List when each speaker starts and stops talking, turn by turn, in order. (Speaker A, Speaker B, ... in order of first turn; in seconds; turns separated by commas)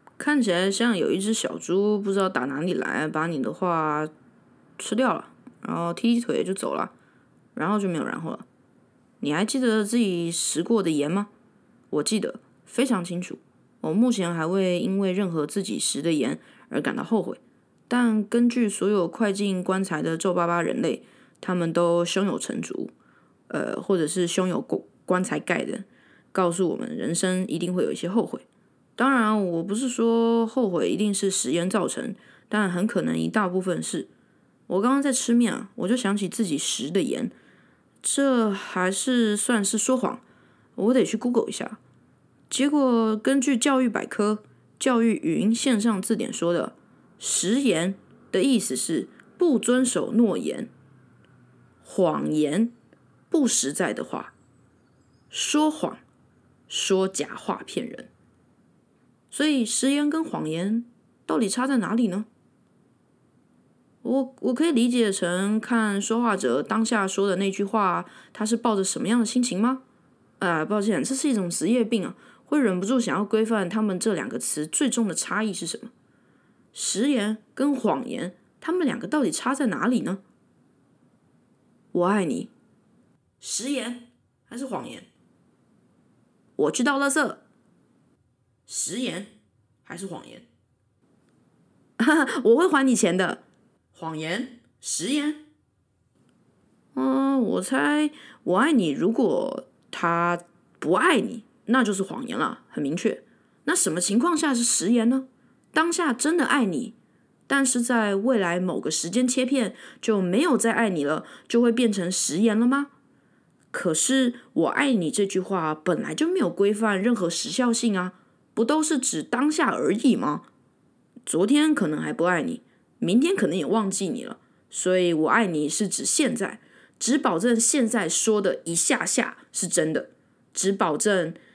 Speaker A: 0.2-4.1, Speaker A: 4.8-6.9, Speaker A: 7.5-8.4, Speaker A: 9.2-11.3, Speaker A: 11.9-22.9, Speaker A: 23.5-28.4, Speaker A: 29.0-34.1, Speaker A: 34.7-37.3, Speaker A: 38.0-40.2, Speaker A: 40.8-41.8, Speaker A: 42.5-50.7, Speaker A: 51.8-52.7, Speaker A: 53.3-54.3, Speaker A: 55.3-56.0, Speaker A: 56.7-58.1, Speaker A: 59.3-62.3, Speaker A: 64.0-69.8, Speaker A: 70.4-75.9, Speaker A: 76.7-80.2, Speaker A: 81.9-82.5, Speaker A: 83.4-85.1, Speaker A: 86.6-87.4, Speaker A: 88.7-89.3, Speaker A: 89.8-90.5, Speaker A: 92.0-93.4, Speaker A: 93.9-95.4, Speaker A: 96.9-106.9, Speaker A: 107.5-112.9, Speaker A: 113.7-120.5, Speaker A: 121.2-131.4